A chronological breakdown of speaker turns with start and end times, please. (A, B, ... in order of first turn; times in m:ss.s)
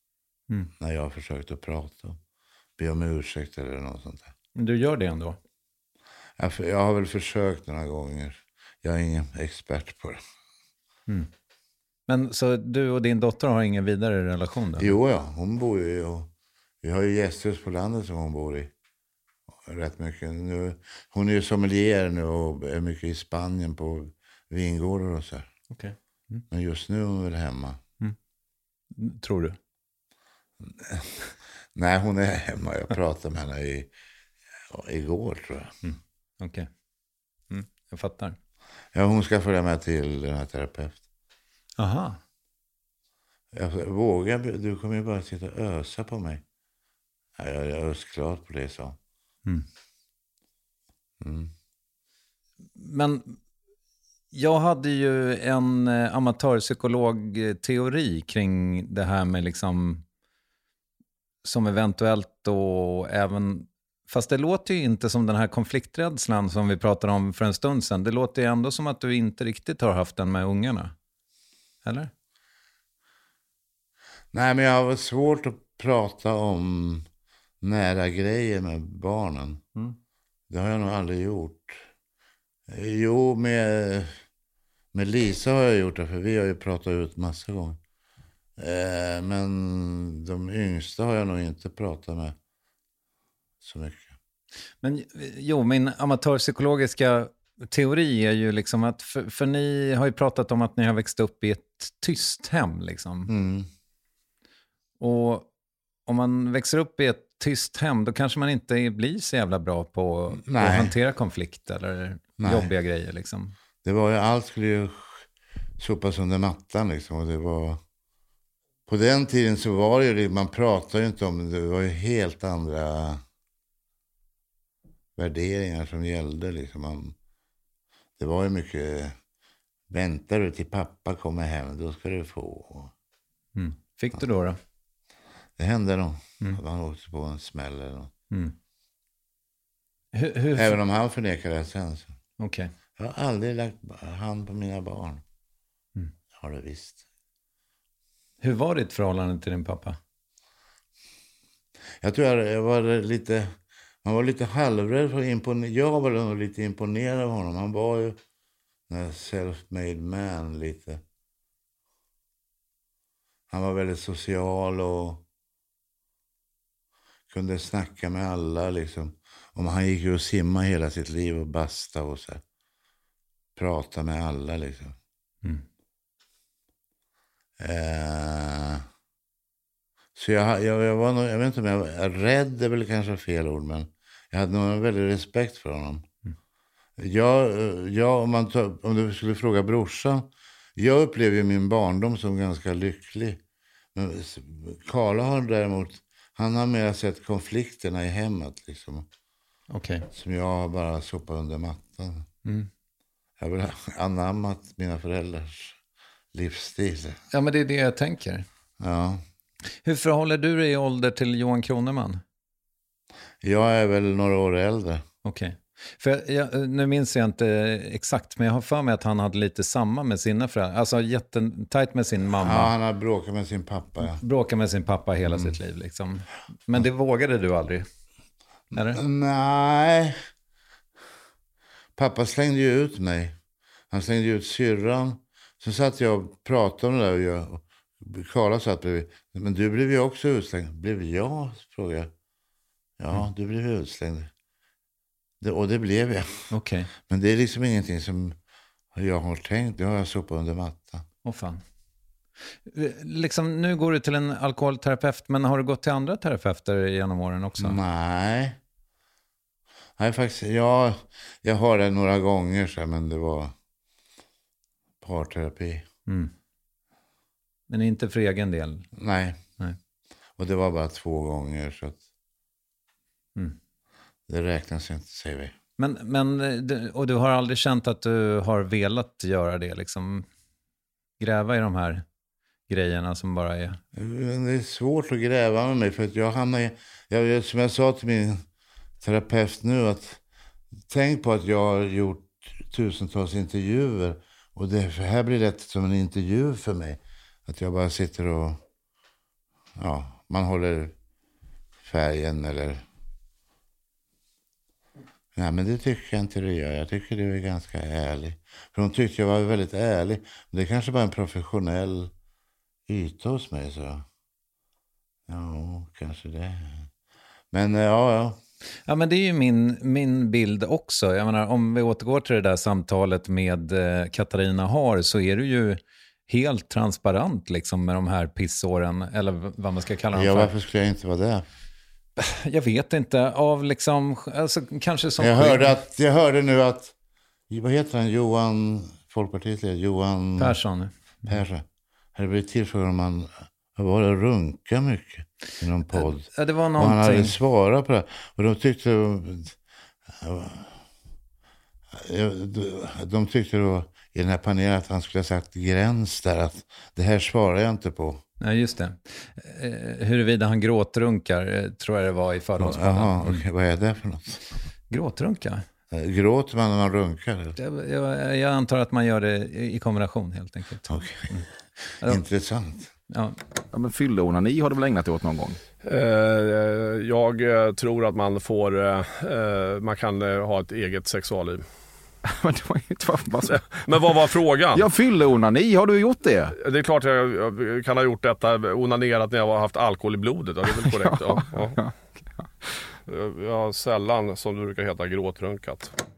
0:00.8-0:02.2 A
0:02.8-0:04.3 A
0:04.6-0:05.4 B
0:06.4-0:10.2 A
0:12.1-0:14.9 B
0:14.8-0:16.3 A
0:16.8-0:18.7 A
0:19.5-0:25.5 A
0:25.7-0:26.4 B
0:26.5-0:27.8 A
0:28.9-0:29.6 B
0:30.6-0:31.1 A
0:31.8-0:33.9 A
0:34.7-0:35.8 A
0:35.8-0:36.7 B
0:37.5-0:38.4 B
0:38.9-0:41.0 A
0:41.8-0:42.2 B
0:43.5-0:46.4 A
0:47.4-0:49.0 A
0:51.2-0:51.5 A
0:52.8-0:53.4 B
0:54.3-1:00.0 B
1:01.4-1:10.9 B
1:11.8-1:12.1 B
1:14.3-1:17.1 A
1:17.6-1:19.6 A
1:20.5-1:21.9 A
1:22.7-1:24.2 A
1:24.9-1:27.8 A
1:28.6-1:32.4 A
1:33.6-1:34.2 A
1:34.8-1:43.3 B
1:43.3-1:43.7 A
1:45.0-1:45.5 B
1:46.1-1:53.6 B
1:50.4-1:51.0 A
1:52.4-1:52.7 A
1:53.8-1:57.8 A
1:58.9-2:03.2 A
2:05.2-2:07.2 A
2:08.2-2:09.2 A
2:09.9-2:12.9 A
2:13.6-2:14.6 B
2:15.6-2:18.1 A
2:18.3-2:18.6 B
2:20.1-2:20.8 B
2:20.6-2:22.2 A
2:22.4-2:22.7 B
2:23.0-2:25.2 A
2:26.3-2:27.0 A
2:28.4-2:30.0 B
2:32.0-2:38.2 A
2:38.9-2:41.0 A
2:43.5-2:45.2 A
2:47.3-2:52.4 A
2:53.6-2:55.0 A
2:57.6-2:58.9 A
3:00.2-3:06.1 A
3:07.0-3:13.4 A
3:14.0-3:19.1 A
3:19.7-3:20.1 B
3:20.1-3:22.3 A
3:23.4-3:25.8 A
3:26.3-3:27.2 A
3:27.3-3:28.5 B
3:28.8-3:29.2 A
3:29.8-3:32.2 B
3:33.4-3:35.0 A
3:35.2-3:42.7 B
3:42.4-3:44.2 A
3:44.0-3:47.9 B
3:45.3-3:45.6 A
3:48.7-3:50.2 A
3:48.7-3:49.0 B
3:52.0-3:53.4 A
3:53.9-4:02.1 A
4:03.0-4:04.3 A
4:05.4-4:06.5 A
4:06.5-4:06.9 B
4:07.1-4:08.4 A
4:08.9-4:11.1 A
4:11.2-4:11.6 B
4:12.7-4:17.8 B
4:17.6-4:18.6 A
4:20.0-4:23.5 A
4:25.0-4:25.9 A
4:26.1-4:26.3 B
4:27.7-4:28.9 B
4:28.9-4:29.4 A
4:30.4-4:32.0 A
4:34.3-4:35.6 A
4:35.8-4:40.3 B
4:41.2-4:42.0 B
4:42.7-4:43.8 B
4:43.9-4:48.4 A
4:49.0-4:50.2 A
4:50.9-4:58.6 A
4:59.8-5:01.0 A
5:01.8-5:02.8 A
5:05.3-5:12.1 A
5:12.9-5:14.1 A
5:15.3-5:16.9 A
5:17.5-5:18.4 A
5:18.9-5:30.5 B
5:30.1-5:31.4 A
5:32.2-5:35.8 B
5:35.2-5:37.0 A
5:37.5-5:40.6 A
5:40.4-5:40.9 B
5:41.2-5:49.6 A
5:45.9-5:47.4 B
5:50.1-5:50.8 A
5:51.9-5:58.2 A
5:58.4-6:03.4 B
6:02.6-6:04.4 A
6:04.9-6:05.6 B
6:05.9-6:07.6 A
6:07.6-6:11.5 B
6:10.9-6:11.4 A
6:12.0-6:12.9 A
6:13.1-6:13.4 B
6:13.7-6:15.6 C
6:15.8-6:21.6 D
6:22.3-6:26.5 C
6:23.5-6:24.9 D
6:26.6-6:31.8 D
6:30.7-6:32.5 C
6:33.1-6:35.9 D